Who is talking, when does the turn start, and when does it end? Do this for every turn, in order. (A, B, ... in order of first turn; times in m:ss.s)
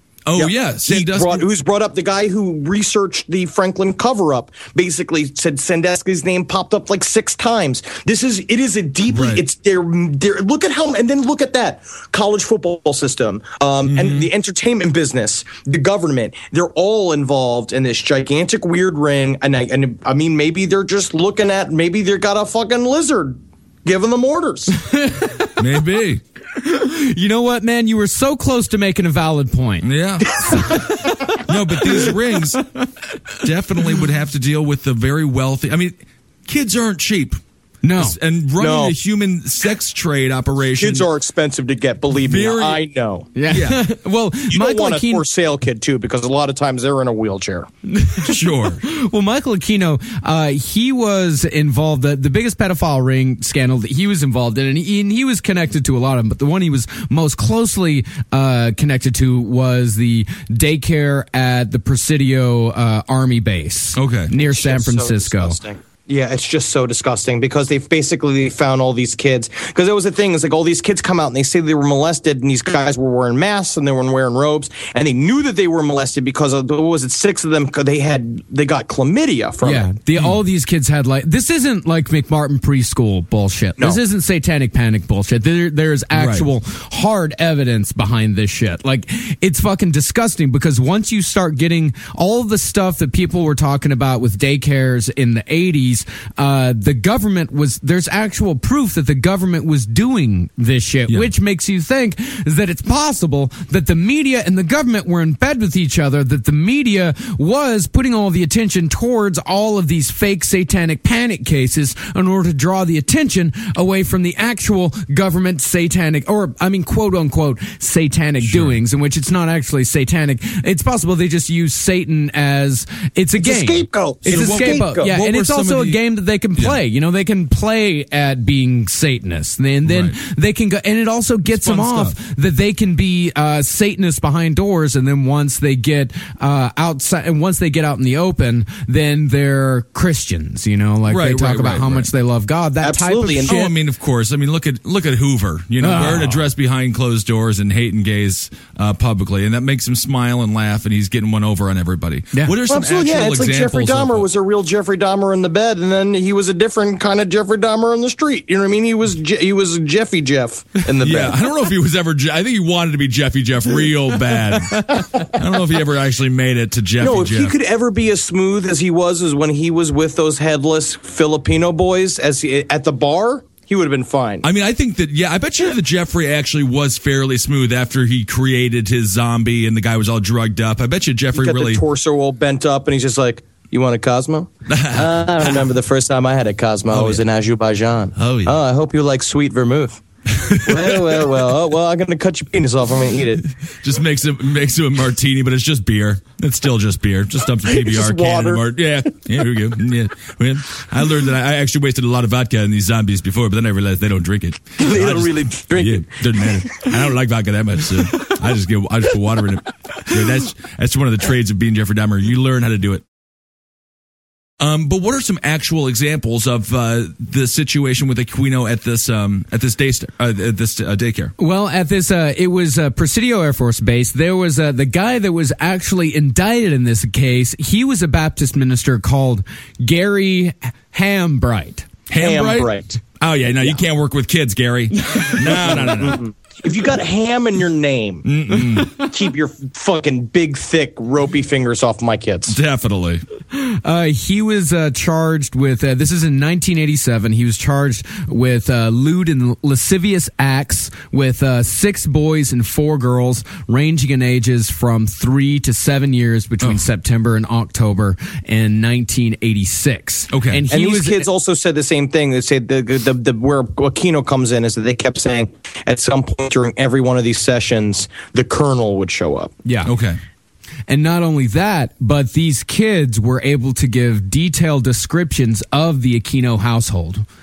0:00.2-0:01.4 A
0:00.4-0:24.8 B
0:09.1-0:09.4 A
0:13.8-0:14.3 A
0:25.6-0:26.2 A
0:26.6-0:31.2 C
0:29.8-0:32.6 A
0:33.4-0:35.9 A
0:36.4-0:37.4 A
0:37.8-0:38.2 C
0:38.0-0:41.1 A
0:38.6-0:38.9 B
0:40.8-0:43.3 B
0:42.1-0:42.8 A
0:43.3-0:45.2 C
0:43.5-0:43.8 A
0:44.5-0:47.7 B
0:47.9-0:48.3 C
0:48.2-0:48.8 A
0:48.8-1:05.6 C
1:03.9-1:04.3 A
1:04.4-1:19.9 B
1:19.6-2:23.7 C
1:26.1-1:26.4 A
1:58.4-1:58.8 A
2:03.4-2:05.1 B
2:04.3-2:06.0 A
2:09.8-2:10.1 A
2:11.5-2:12.1 A
2:21.1-2:22.1 A
2:22.8-2:23.5 B
2:23.5-2:34.3 A
2:25.8-2:26.4 C
2:32.7-2:41.4 B
2:41.0-2:47.5 A
2:47.0-2:54.4 B
2:54.4-3:01.8 A
3:01.3-3:10.0 B
3:04.7-3:05.7 A
3:06.9-3:07.2 A
3:08.2-3:08.6 A
3:10.4-3:11.5 A
3:10.5-3:13.5 B
3:13.8-3:33.0 A
3:17.6-3:18.6 B
3:24.8-3:26.5 B
3:34.6-3:41.3 A
3:41.4-3:51.9 C
3:52.1-3:56.2 A
3:52.1-3:53.0 B
3:55.4-4:02.5 B
3:58.2-3:59.0 A
4:02.5-4:03.2 A
4:03.5-4:21.2 C
4:20.3-4:20.6 A
4:20.7-4:29.5 B
4:29.6-4:29.9 C
4:29.8-4:30.2 A
4:30.9-4:37.2 C